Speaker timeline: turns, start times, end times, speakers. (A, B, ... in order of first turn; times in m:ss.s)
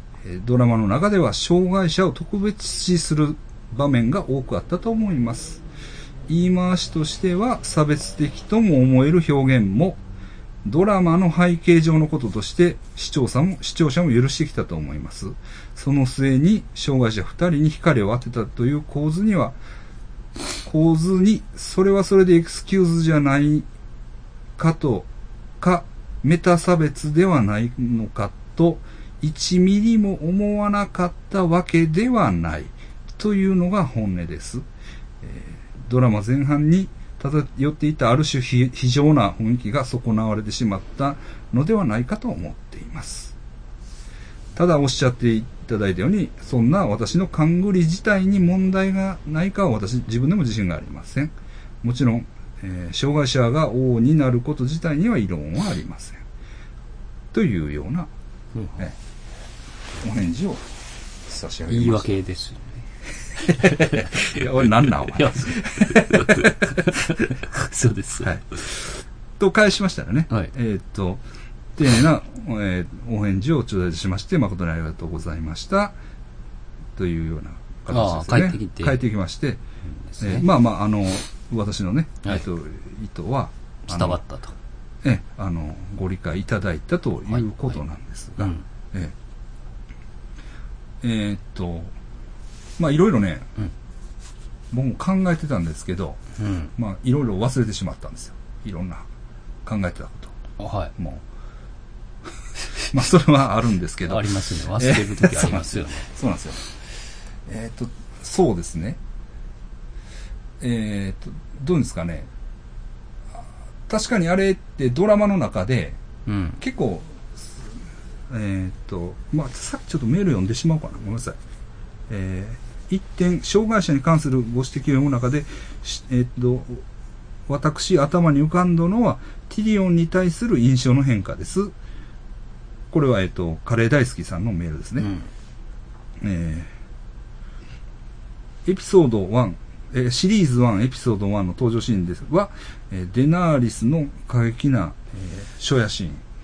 0:00.2-0:05.6 A
0:06.3-0:10.0 A
0:10.6-0:19.6 A
0:20.6-0:23.7 A
0:24.6-0:25.1 A
0:25.6-0:34.6 A
0:35.2-0:43.3 A
0:44.6-0:56.2 A
0:57.3-0:58.1 A
0:58.5-0:58.8 B
1:00.0-1:00.7 A
1:01.2-1:02.1 A
1:01.7-1:02.8 B
1:03.4-1:08.7 B
1:03.4-1:06.9 A
1:08.2-1:11.2 A
1:11.8-1:15.9 A
1:17.0-1:19.6 A
1:17.9-1:19.0 B
1:20.0-1:20.5 B
1:20.2-1:24.2 A
1:23.9-1:24.5 B
1:25.0-1:29.1 A
1:27.3-1:27.8 B
1:28.4-1:28.6 B
1:31.0-1:31.9 A
1:32.8-1:33.5 A
1:34.7-1:36.2 A
1:36.4-1:36.7 B
1:36.7-1:39.0 A
1:39.6-1:40.3 A
1:40.6-1:40.9 B
1:41.0-1:41.2 A
1:42.8-1:46.7 A
1:44.0-1:46.1 B
1:47.4-1:49.0 A
1:50.6-1:52.3 A
1:53.9-1:56.0 A
1:56.2-1:56.6 B
1:56.6-1:57.7 A
1:58.3-2:01.4 A
2:02.1-2:06.8 A
2:07.5-2:11.7 A
2:12.9-2:15.1 A
2:15.0-2:15.3 B
2:16.2-2:16.7 A
2:18.6-2:26.2 A